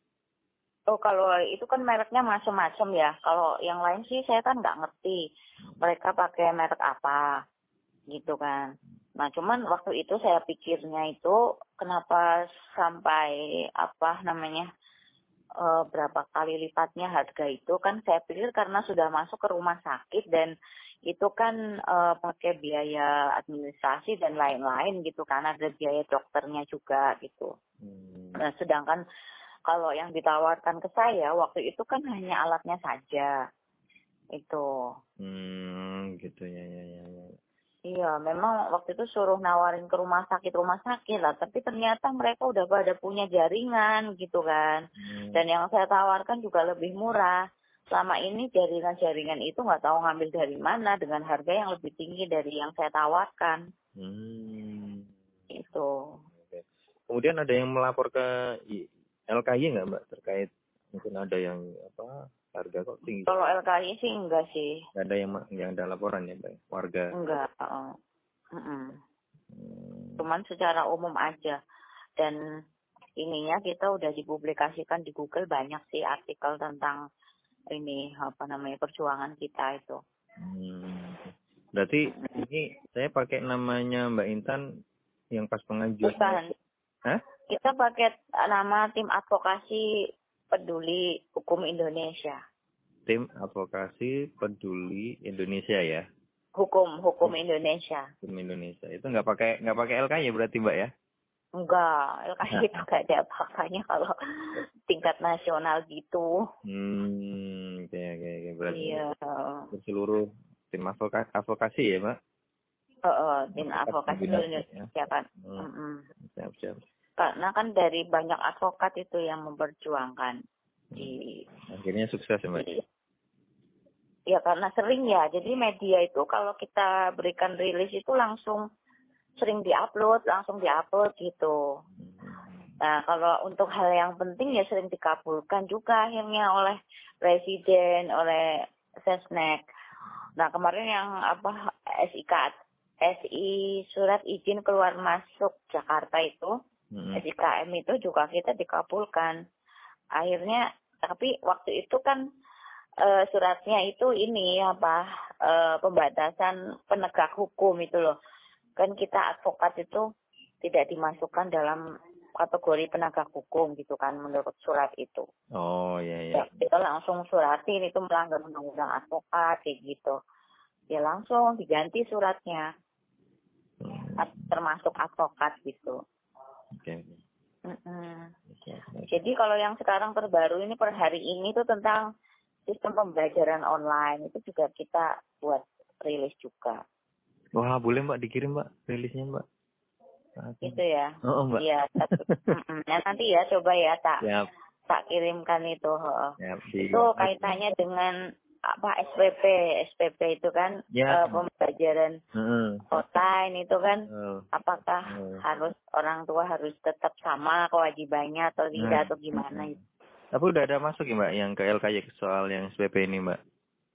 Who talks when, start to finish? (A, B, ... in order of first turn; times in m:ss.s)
0:00.9-0:05.2 A
0:05.8-0:07.4 A
0:08.1-0:14.7 A
0:15.6-0:20.5 A
0:21.1-0:27.5 A
0:27.8-0:28.4 B
0:28.4-0:29.0 A
0:29.7-0:33.4 A
0:34.4-0:34.7 A
0:35.2-0:37.3 B
0:37.9-0:53.6 A
0:45.0-0:45.4 B
0:54.0-0:55.1 B
0:55.5-0:55.9 A
0:56.4-1:03.3 B
1:03.2-1:04.7 A
1:04.9-1:07.1 B
1:07.1-1:07.9 A
1:08.5-1:09.0 A
1:09.5-1:10.2 B
1:10.2-1:11.6 A
1:13.2-1:17.0 A
1:17.7-1:20.0 A
1:20.4-1:24.6 B
1:22.1-1:22.4 A
1:25.3-1:26.4 B
1:26.0-1:26.5 A
1:27.5-1:29.9 A
1:30.5-1:32.4 A
1:33.1-1:36.0 B
1:36.6-1:38.1 A
1:38.2-1:40.9 B
1:41.6-1:44.1 A
1:42.5-1:42.8 B
1:44.8-1:46.4 A
1:46.6-1:49.0 B
1:48.7-1:49.7 A
1:49.7-1:52.1 B
1:53.1-1:56.0 A
1:53.5-1:54.9 B
1:55.4-1:55.7 B
1:56.3-1:56.8 B
1:57.2-2:00.4 A
2:01.0-2:01.4 A
2:01.7-2:02.8 B
2:04.3-2:08.6 A
2:09.4-2:11.6 A
2:12.0-2:12.5 B
2:12.8-2:18.5 A
2:19.0-2:19.6 A
2:20.4-2:22.5 A
2:23.0-2:26.5 A
2:26.9-2:27.2 B
2:27.1-2:29.3 A
2:30.2-2:32.2 A
2:33.0-2:38.1 A
2:38.8-2:40.0 A
2:40.6-2:41.8 A
2:42.4-2:45.2 A
2:45.6-2:46.4 B
2:46.3-2:50.2 A
2:50.9-2:52.7 A
2:53.8-2:54.5 B
2:54.2-2:56.0 A
2:56.8-2:57.2 B
2:57.7-2:58.3 A
2:58.5-2:59.1 B
2:59.1-3:02.0 A
3:02.7-3:06.8 A
3:07.6-3:09.4 B
3:10.4-3:12.5 B
3:10.6-3:14.2 A
3:14.2-3:14.5 B
3:14.9-3:16.3 A
3:16.4-3:17.6 B
3:16.9-3:18.1 A
3:18.7-3:22.2 A
3:20.9-3:21.4 B
3:22.4-3:22.8 B
3:22.9-3:29.8 A
3:24.1-3:24.5 B
3:25.1-3:25.4 B
3:28.8-3:29.8 B
3:30.3-3:33.4 B